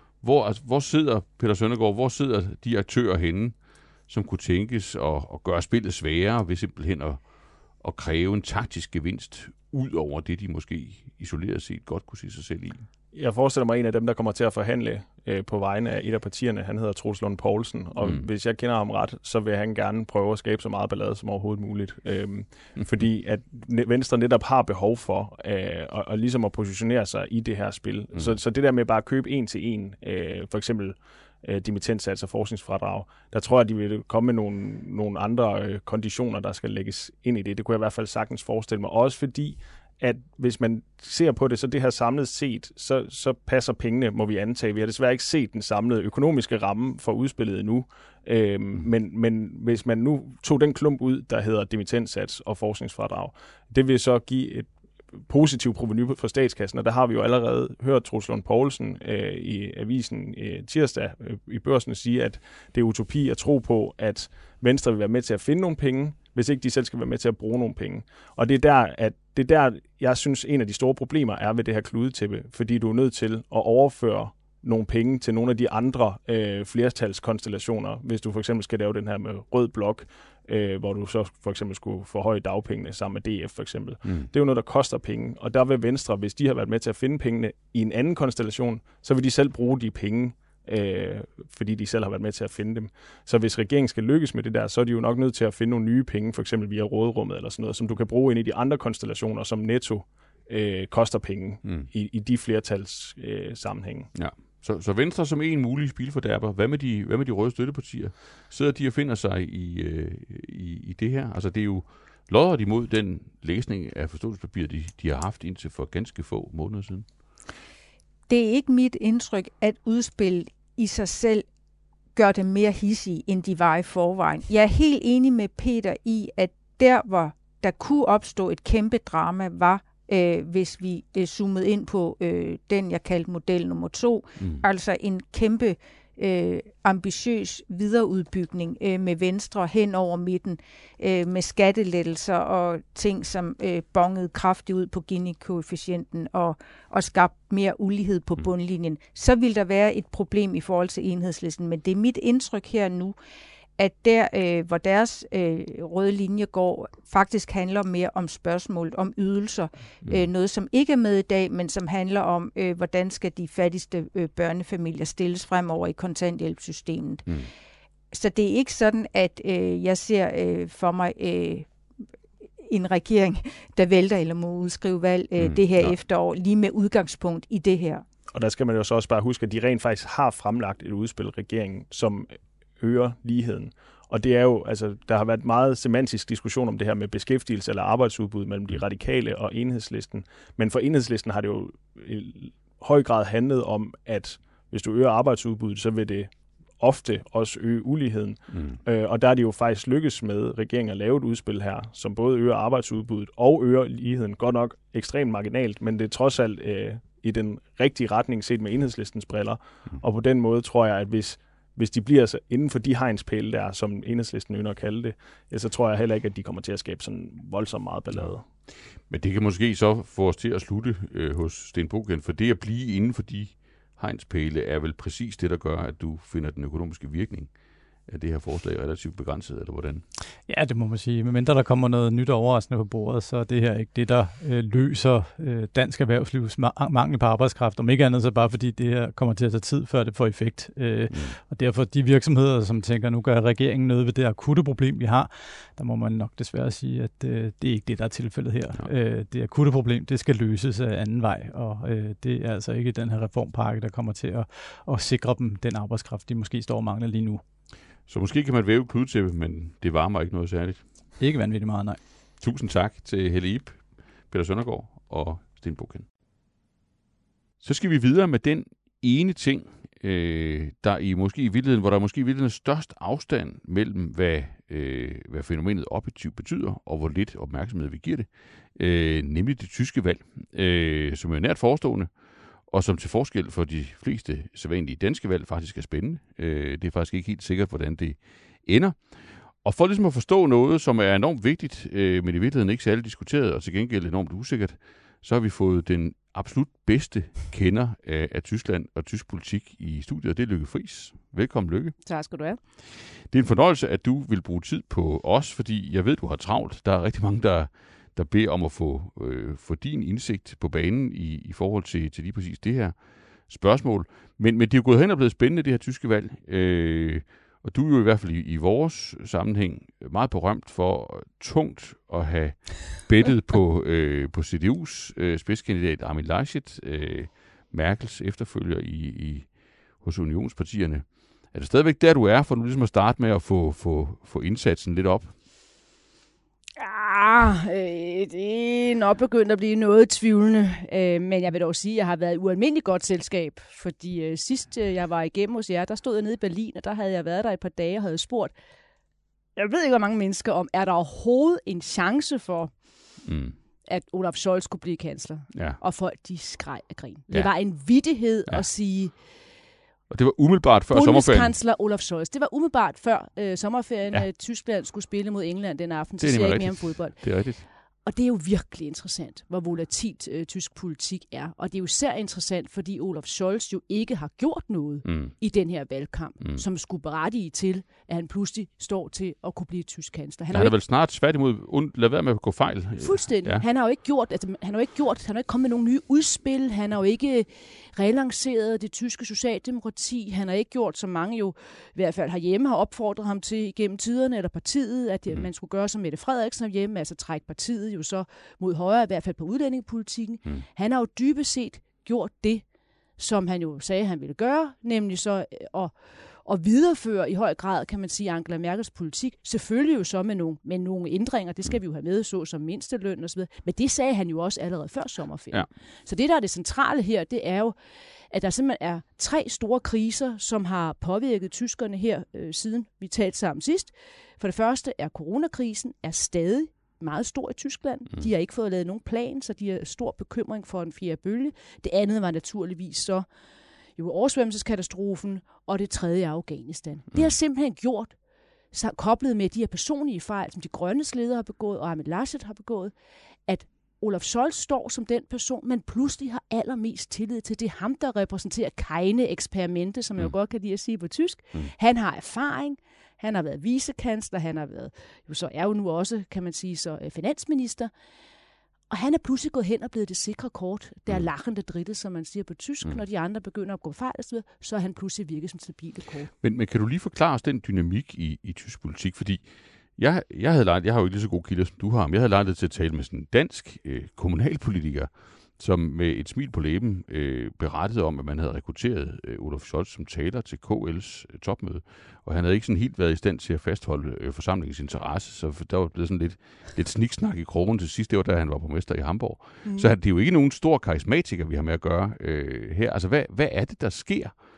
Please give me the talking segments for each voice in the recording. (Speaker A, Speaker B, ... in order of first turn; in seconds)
Speaker A: 0.2-12.9, 18.0-18.3, 84.0-84.3, 101.6-101.9, 104.1-117.1, 134.4-134.6, 175.4-175.9, 198.5-198.8, 219.0-227.5, 228.1-230.1, 241.1-241.4, 258.1-260.8, 262.4-266.1, 267.6-282.1, 282.7-302.0, 302.9-335.4, 353.2-353.6, 355.5-355.8, 358.0-358.6, 360.1-361.6, 366.2-367.7, 375.0-375.3, 380.5-383.6, 466.4-469.4, 470.0-494.4
Speaker B: 13.1-54.7, 55.2-104.1, 178.3-218.4
Speaker C: 118.3-121.5, 122.2-153.2, 153.8-167.3, 168.1-171.7, 172.6-178.1
Speaker D: 230.5-257.4, 261.2-262.0
Speaker E: 302.0-302.6, 336.8-348.5, 349.6-352.7, 353.9-359.2, 360.9-380.8, 383.0-402.6, 403.2-417.8, 418.3-433.3, 434.0-438.1, 438.7-442.9, 443.5-457.9, 458.9-466.3, 489.6-489.9